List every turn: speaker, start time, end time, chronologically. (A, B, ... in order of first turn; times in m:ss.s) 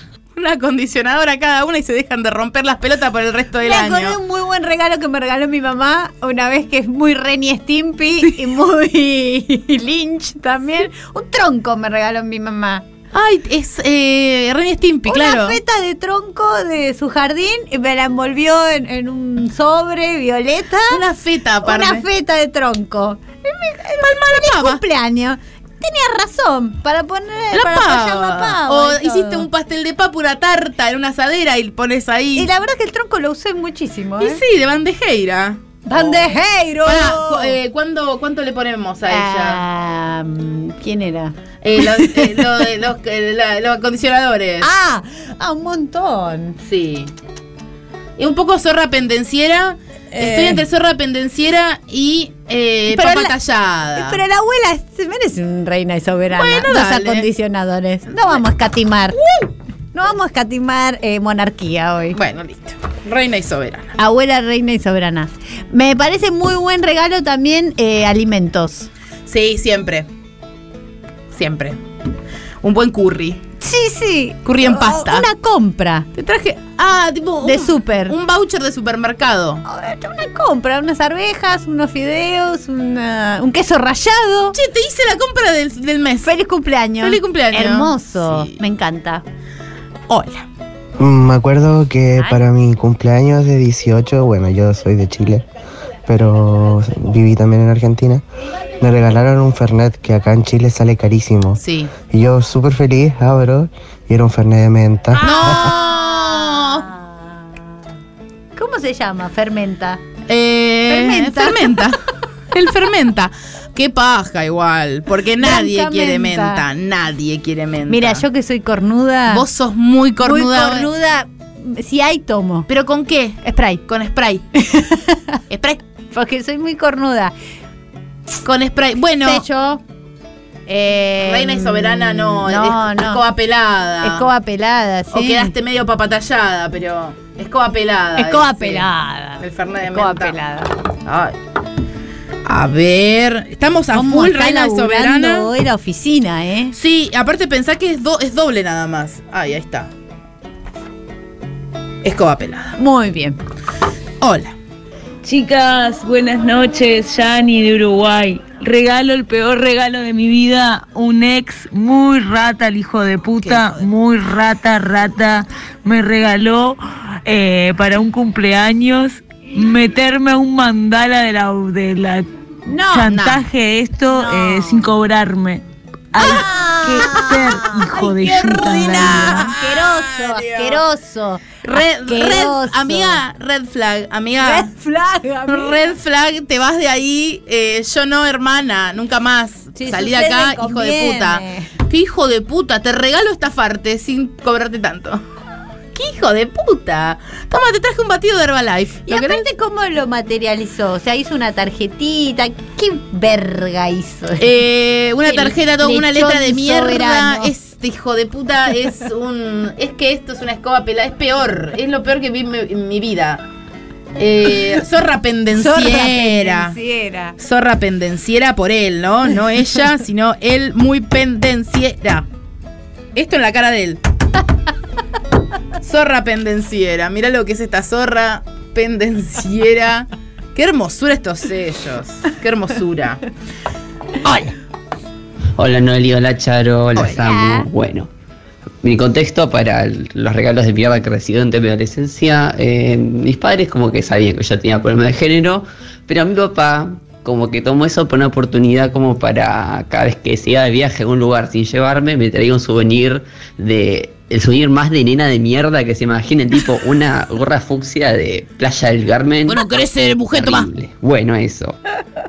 0:00.3-0:04.2 A
0:03.6-0:12.8 B
0:13.1-0:15.6 A
0:15.1-0:21.0 B
0:20.9-0:22.1 A
0:21.6-0:29.5 B
0:24.0-0:24.8 A
0:27.5-0:32.5 A
0:32.3-0:34.4 B
0:34.2-0:39.6 A
0:35.8-0:37.6 B
0:39.1-0:42.6 B
0:41.6-0:44.7 A
0:44.6-0:46.6 B
0:46.6-0:47.1 A
0:48.2-0:54.2 A
0:50.1-0:50.6 B
0:52.9-0:53.3 B
0:53.9-0:59.2 B
0:56.3-0:57.3 A
0:58.1-0:58.4 A
0:59.1-0:59.5 A
0:59.9-1:02.2 B
1:02.1-1:03.9 A
1:04.0-1:08.9 B
1:09.2-1:10.1 A
1:11.3-1:11.8 A
1:12.6-1:13.4 A
1:13.6-1:16.1 B
1:14.4-1:15.3 A
1:16.1-1:19.6 A
1:17.4-1:18.2 B
1:19.6-1:24.6 B
1:24.5-1:26.4 A
1:26.2-1:29.2 B
1:27.0-1:28.5 A
1:30.1-1:30.4 A
1:31.0-1:35.4 C
1:36.1-1:38.2 C
1:38.8-1:45.6 C
1:41.6-1:41.9 A
1:45.1-1:47.4 B
1:45.2-1:46.9 A
1:48.5-1:50.0 B
1:50.3-1:52.0 A
1:50.9-1:51.8 B
1:52.5-1:58.2 A
1:55.4-1:56.6 B
1:57.9-1:59.4 B
1:59.3-2:00.9 A
2:00.2-2:02.7 B
2:02.7-2:04.4 A
2:04.6-2:05.4 B
2:05.5-2:05.8 A
2:06.1-2:07.3 B
2:08.4-2:09.4 A
2:09.2-2:09.8 B
2:10.7-2:13.2 B
2:11.2-2:14.3 A
2:14.0-2:15.5 B
2:15.1-2:18.9 A
2:18.2-2:20.7 B
2:19.4-2:20.4 A
2:21.0-2:21.4 A
2:22.4-2:25.5 A
2:23.9-2:26.7 B
2:26.7-2:29.9 A
2:32.0-2:32.8 A
2:32.8-2:33.4 B
2:34.2-2:34.5 A
2:35.2-2:52.2 D
2:43.4-2:43.9 A
2:52.6-2:53.2 B
2:52.9-2:55.6 D
2:53.1-2:53.4 A
2:54.1-2:54.9 B
2:56.1-2:59.5 D
2:56.2-3:03.2 B
2:56.2-3:00.8 A
3:01.6-3:04.7 A
3:04.4-3:06.0 B
3:05.5-3:15.2 A
3:09.8-3:11.7 B
3:15.9-3:19.5 A
3:19.1-3:24.5 B
3:24.4-3:33.4 A
3:25.2-3:27.5 B
3:34.2-3:36.8 A
3:35.5-3:37.4 B
3:37.4-3:42.3 A
3:43.1-3:44.0 A
3:45.8-3:53.2 A
3:54.2-3:54.5 A
3:55.6-3:58.1 E
3:57.2-3:57.7 B
3:58.8-4:19.7 E
4:19.5-4:20.7 A
4:20.3-4:21.8 E